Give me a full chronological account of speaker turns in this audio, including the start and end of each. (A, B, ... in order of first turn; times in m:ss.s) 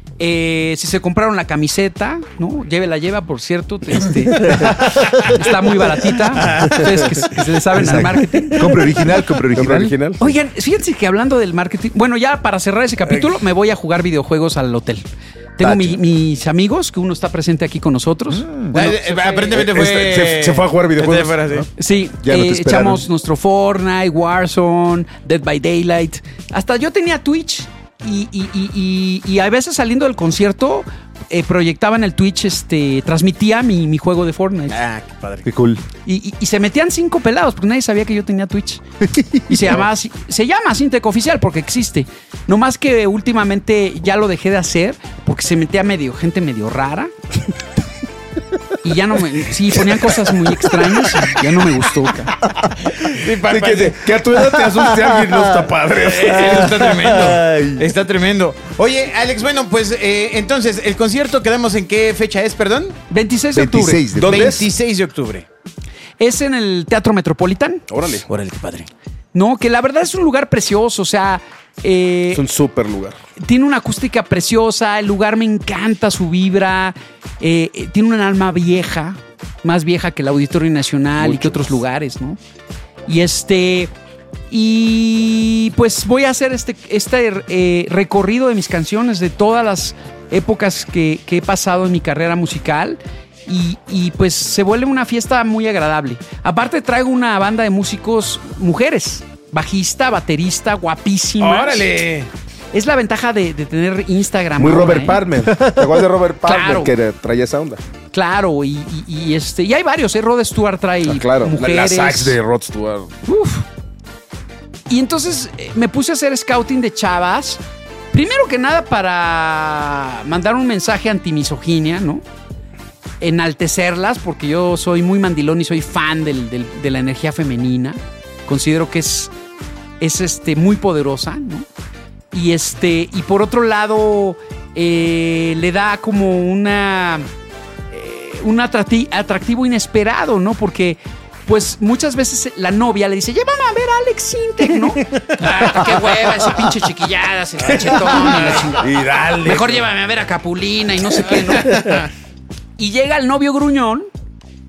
0:00.2-0:08.7 A
0:06.4-0:07.1 B
0:07.7-0:09.9 C
0:09.5-0:10.2 D
0:10.2-0:15.0 A
0:15.6-0:19.5 A
0:15.6-0:16.0 C
0:18.4-0:19.0 C
0:18.7-0:21.7 B
0:19.5-0:21.4 D
0:21.8-0:34.8 A
0:22.2-0:23.0 C
0:34.7-0:35.5 B
0:35.4-0:35.8 C
0:36.0-0:38.8 A
0:39.1-0:39.7 C
0:39.4-0:47.1 A
0:48.8-0:52.3 A
0:52.8-0:54.0 B
0:53.4-0:56.8 D
0:54.4-0:55.7 C
0:56.0-1:03.0 B
0:56.2-0:57.8 C
1:03.1-1:04.0 A
1:03.5-1:04.6 C
1:04.1-1:04.6 D
1:04.2-1:05.4 B
1:06.2-1:07.8 A
1:07.9-1:08.2 D
1:08.3-1:08.9 B
1:09.3-1:12.4 A
1:12.3-1:13.2 D
1:13.4-1:22.4 A
1:21.2-1:21.8 D
1:23.1-1:23.9 A
1:24.5-1:41.8 A
1:41.4-1:42.3 B
1:42.7-1:45.2 A
1:44.6-1:47.8 D
1:45.4-1:46.1 C
1:46.4-1:46.9 A
1:48.1-1:52.4 A
1:51.0-1:53.1 D
1:53.2-1:53.6 A
1:54.9-1:57.6 A
1:58.1-2:02.2 A
2:03.2-2:09.3 A
2:10.0-2:11.6 A
2:12.3-2:17.2 A
2:17.9-2:32.1 A
2:25.2-2:26.3 B
2:27.7-2:29.8 B
2:32.8-2:34.1 A